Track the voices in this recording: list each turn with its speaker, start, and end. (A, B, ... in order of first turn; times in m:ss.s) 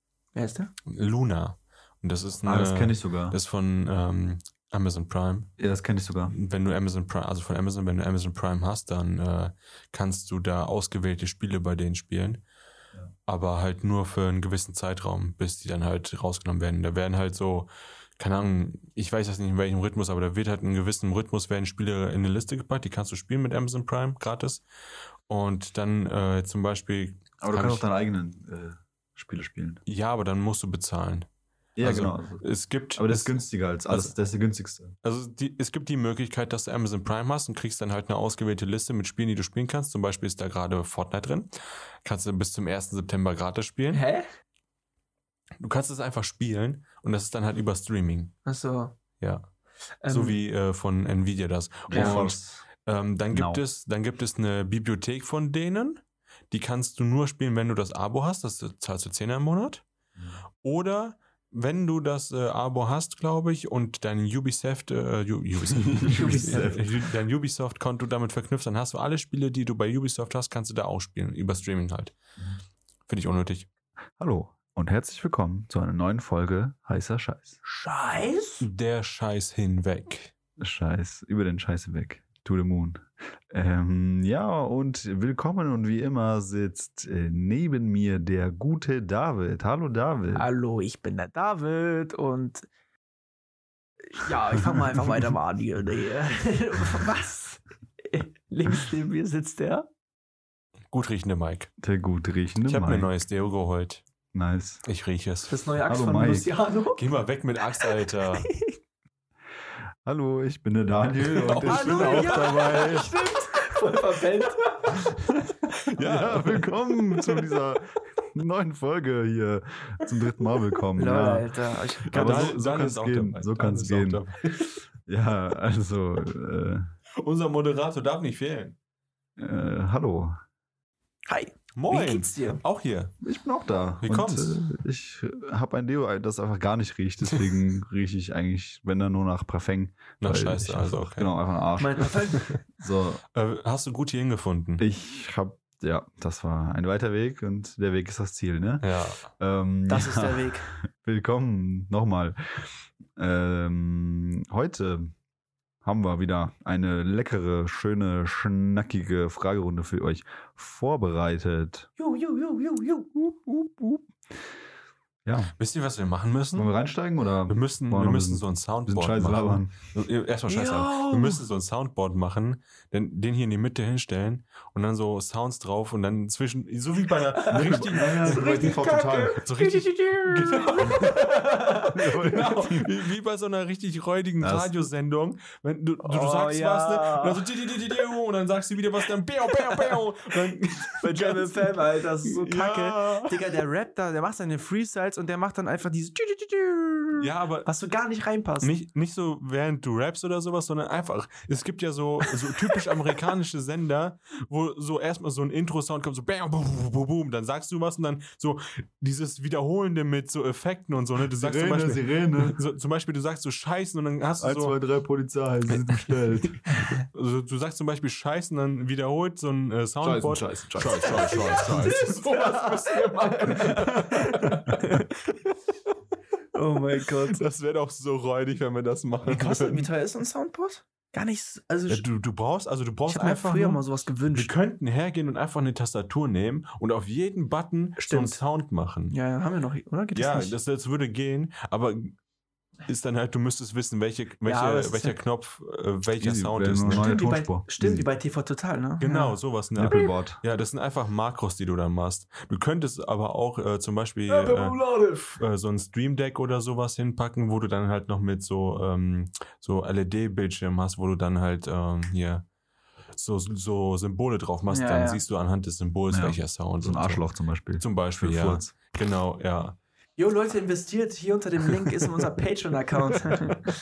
0:00.3-0:00.7 A
0:00.8-0:05.5 B
0:02.4-0:03.4 C
0:05.6-0:06.3 C
0:06.3-0:12.4 B
0:13.3-0:24.6 B
0:25.3-0:27.8 B
0:27.4-0:29.8 C
0:29.8-0:31.3 B
0:31.8-0:32.4 C
0:31.8-0:34.1 B
0:33.0-0:34.9 C
0:35.0-0:41.5 B
0:42.0-0:44.0 B
0:43.9-0:44.2 A
0:45.6-0:48.3 B
0:48.4-0:49.0 A
0:49.2-0:49.5 B
0:50.0-0:50.4 A
0:50.1-0:59.8 B
0:51.9-0:52.6 C
0:51.9-0:52.2 A
0:53.3-0:53.6 C
1:00.6-1:12.2 B
1:05.7-1:07.0 C
1:06.1-1:06.8 A
1:13.1-1:13.7 B
1:14.2-1:17.6 C
1:17.6-1:18.7 A
1:18.6-1:20.3 B
1:20.6-1:30.4 C
1:30.3-1:32.7 A
1:34.0-1:39.9 A
1:40.9-1:41.7 B
1:41.8-1:43.1 C
1:42.6-1:44.0 B
1:44.3-1:44.8 C
1:44.8-1:45.5 B
1:45.5-1:47.1 A
1:45.8-1:46.5 C
1:46.9-1:48.5 B
1:47.7-1:48.8 A
1:50.0-1:53.2 C
1:51.2-1:52.9 B
1:51.5-1:55.0 A
1:55.9-1:57.5 B
1:56.0-2:04.2 C
2:01.0-2:02.5 A
2:02.1-2:04.8 B
2:05.0-2:06.8 C
2:07.2-2:08.8 B
2:09.4-2:10.4 C
2:11.3-2:12.6 A
2:11.7-2:13.1 B
2:13.2-2:22.1 C
2:14.0-2:14.6 B
2:20.2-2:21.3 B
2:21.8-2:22.6 A
2:22.3-2:22.6 B
2:22.8-2:23.2 C
2:23.3-2:24.8 B
2:24.8-2:35.1 C
2:28.8-2:29.2 B
2:29.9-2:30.7 A
2:35.8-2:41.9 C
2:42.0-2:44.0 A
2:45.2-2:45.5 C
2:45.6-2:46.7 B
2:46.5-2:49.9 C
2:47.5-2:58.7 B
2:50.5-2:51.4 A
2:57.3-3:02.0 A
2:57.5-2:59.4 C
2:59.4-3:13.4 B
3:00.8-3:01.1 C
3:01.9-3:02.9 C
3:04.4-3:04.7 C
3:06.0-3:07.7 A
3:09.5-3:10.0 A
3:10.9-3:18.7 A
3:17.2-3:17.7 B
3:18.6-3:34.8 B
3:22.3-3:22.8 A
3:31.4-3:32.6 C
3:34.4-3:36.8 C
3:35.7-3:45.5 B
3:36.7-3:37.0 A
3:40.0-3:41.9 C
3:41.1-3:45.1 A
3:46.5-3:47.4 A
3:47.0-3:49.9 B
3:49.2-3:52.0 A
3:51.9-3:59.1 B
3:53.1-3:54.5 A
3:58.0-3:58.4 A
3:59.1-4:00.6 A
4:00.1-4:02.2 B
4:02.8-4:07.2 B
4:04.4-4:05.2 A
4:06.2-4:08.0 C
4:06.9-4:09.4 A
4:09.0-4:22.4 B
4:09.7-4:10.4 C
4:09.9-4:10.2 A
4:14.3-4:15.4 A
4:23.1-4:27.3 B
4:24.7-4:25.2 A
4:26.1-4:28.8 C
4:27.8-4:29.8 B
4:30.2-4:33.7 A